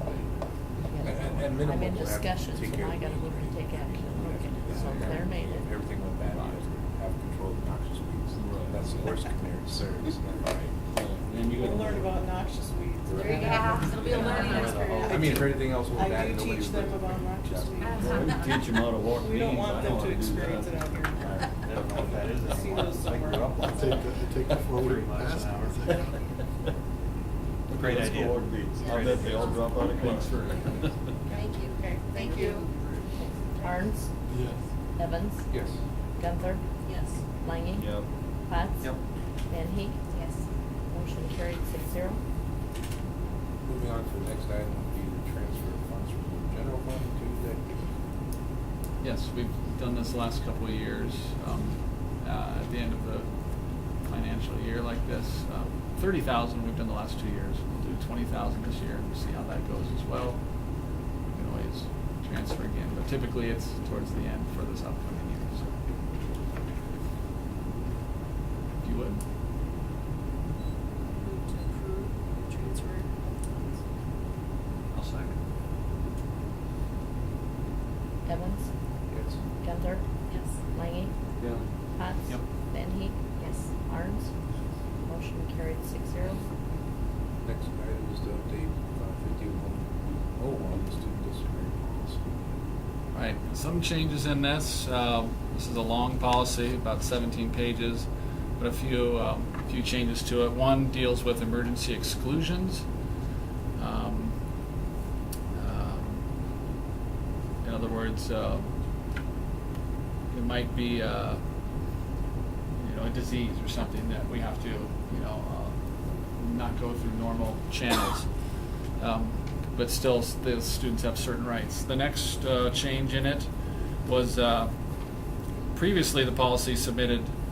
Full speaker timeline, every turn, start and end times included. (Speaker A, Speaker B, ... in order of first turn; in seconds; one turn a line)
Speaker A: 0.9-5.7
Speaker B: 1.0-10.8
Speaker C: 6.3-6.6
Speaker D: 8.4-9.1
Speaker D: 10.9-12.2
Speaker E: 11.5-14.5
Speaker B: 13.1-13.5
Speaker F: 13.3-15.2
Speaker G: 14.0-15.6
Speaker B: 15.0-18.3
Speaker E: 15.9-18.1
Speaker F: 17.8-18.3
Speaker D: 18.0-22.3
Speaker E: 19.2-21.3
Speaker G: 21.5-26.2
Speaker E: 22.4-23.5
Speaker H: 23.6-26.2
Speaker D: 27.7-31.0
Speaker G: 27.7-29.5
Speaker F: 28.8-32.9
Speaker C: 30.0-30.3
Speaker E: 31.8-32.8
Speaker A: 33.2-34.1
Speaker H: 34.3-34.6
Speaker A: 35.0-35.5
Speaker B: 35.5-35.8
Speaker A: 36.2-36.6
Speaker F: 36.8-37.3
Speaker A: 37.4-39.0
Speaker D: 37.8-38.1
Speaker A: 39.5-40.0
Speaker F: 40.1-40.5
Speaker A: 40.9-42.2
Speaker B: 43.6-47.9
Speaker C: 49.0-65.7
Speaker C: 68.8-69.2
Speaker F: 71.0-73.8
Speaker G: 74.9-75.4
Speaker A: 78.3-78.7
Speaker B: 79.1-79.4
Speaker A: 79.6-80.0
Speaker F: 80.3-80.6
Speaker A: 80.7-81.1
Speaker A: 82.0-84.3
Speaker A: 85.1-86.4
Speaker B: 87.4-92.5
Speaker C: 93.1-98.1
Speaker C: 98.6-102.9
Speaker C: 103.8-104.4
Speaker C: 105.5-106.2
Speaker C: 107.6-108.7
Speaker C: 110.3-111.4
Speaker C: 112.8-123.5
Speaker C: 124.0-124.7
Speaker C: 125.7-127.3